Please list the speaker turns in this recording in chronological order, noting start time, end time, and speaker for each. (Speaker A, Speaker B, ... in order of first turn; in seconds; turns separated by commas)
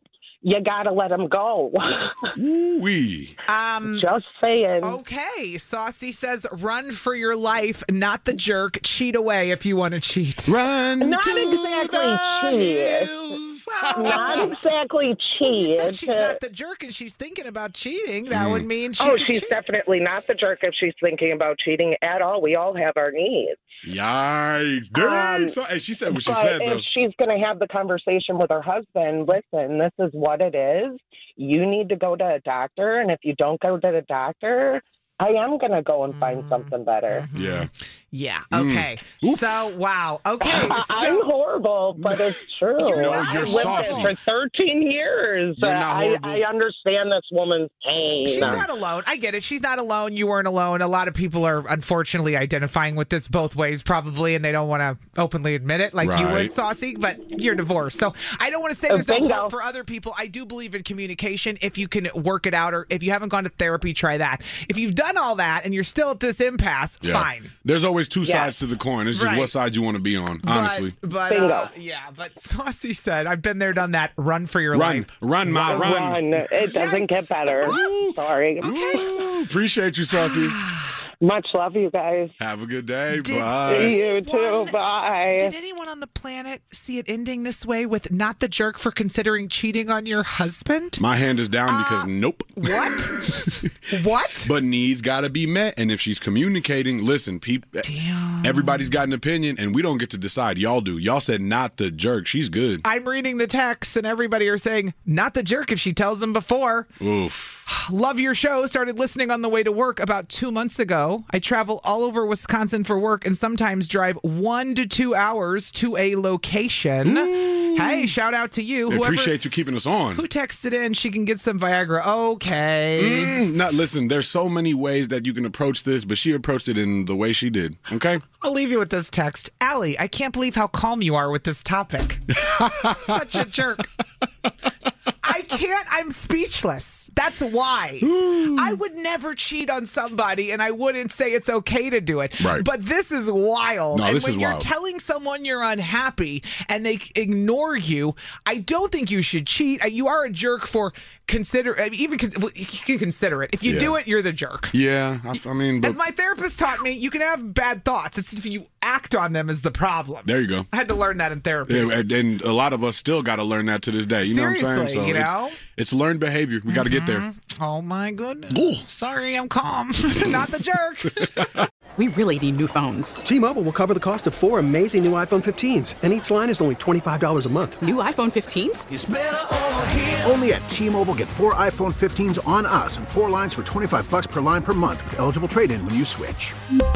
Speaker A: 0.4-2.1, Speaker B: 2.4-3.4, Speaker C: 3.5-4.0, Speaker A: 3.8-5.0, Speaker C: 4.8-10.6, Speaker B: 10.5-14.5, Speaker A: 11.0-13.1, Speaker C: 13.7-14.5, Speaker A: 13.9-16.4, Speaker C: 15.4-19.6, Speaker B: 18.3-18.6, Speaker A: 19.0-23.6, Speaker B: 23.8-26.8, Speaker A: 24.9-25.5, Speaker A: 26.1-37.2, Speaker C: 36.1-41.3, Speaker B: 37.3-37.7, Speaker B: 38.5-39.7, Speaker A: 40.4-48.7, Speaker B: 42.0-44.1, Speaker C: 42.8-44.1, Speaker B: 45.6-46.4, Speaker C: 48.2-67.5, Speaker B: 56.0-56.5, Speaker A: 58.9-59.5, Speaker B: 67.0-71.0, Speaker A: 68.2-68.5, Speaker C: 69.1-69.5, Speaker C: 70.4-76.0, Speaker A: 71.3-71.7, Speaker B: 74.7-76.3, Speaker A: 75.6-79.2, Speaker C: 76.6-77.8, Speaker B: 77.6-80.6, Speaker C: 78.6-79.1, Speaker C: 80.1-80.9, Speaker A: 81.2-82.3, Speaker B: 82.4-83.9, Speaker C: 83.1-84.8, Speaker A: 83.7-85.5, Speaker C: 85.3-91.0, Speaker B: 91.0-93.7, Speaker C: 91.7-94.5, Speaker B: 94.4-97.8, Speaker C: 97.8-98.9, Speaker B: 98.4-102.8, Speaker C: 102.8-106.9, Speaker B: 107.0-107.6, Speaker C: 107.7-119.4, Speaker B: 117.0-118.1, Speaker B: 118.9-120.2, Speaker C: 120.1-123.4, Speaker B: 123.0-128.2, Speaker C: 128.4-133.9, Speaker B: 132.4-133.0, Speaker C: 135.2-154.7, Speaker B: 138.0-138.8, Speaker B: 142.4-142.7, Speaker B: 143.9-144.7, Speaker B: 153.6-153.9, Speaker B: 154.7-156.0, Speaker C: 155.8-162.0, Speaker B: 160.2-160.7, Speaker B: 161.7-167.2, Speaker C: 164.2-165.6, Speaker C: 166.7-171.3, Speaker B: 168.5-168.8, Speaker B: 171.2-171.7, Speaker D: 172.0-173.2, Speaker E: 173.2-177.8, Speaker D: 177.8-178.9, Speaker F: 178.9-186.6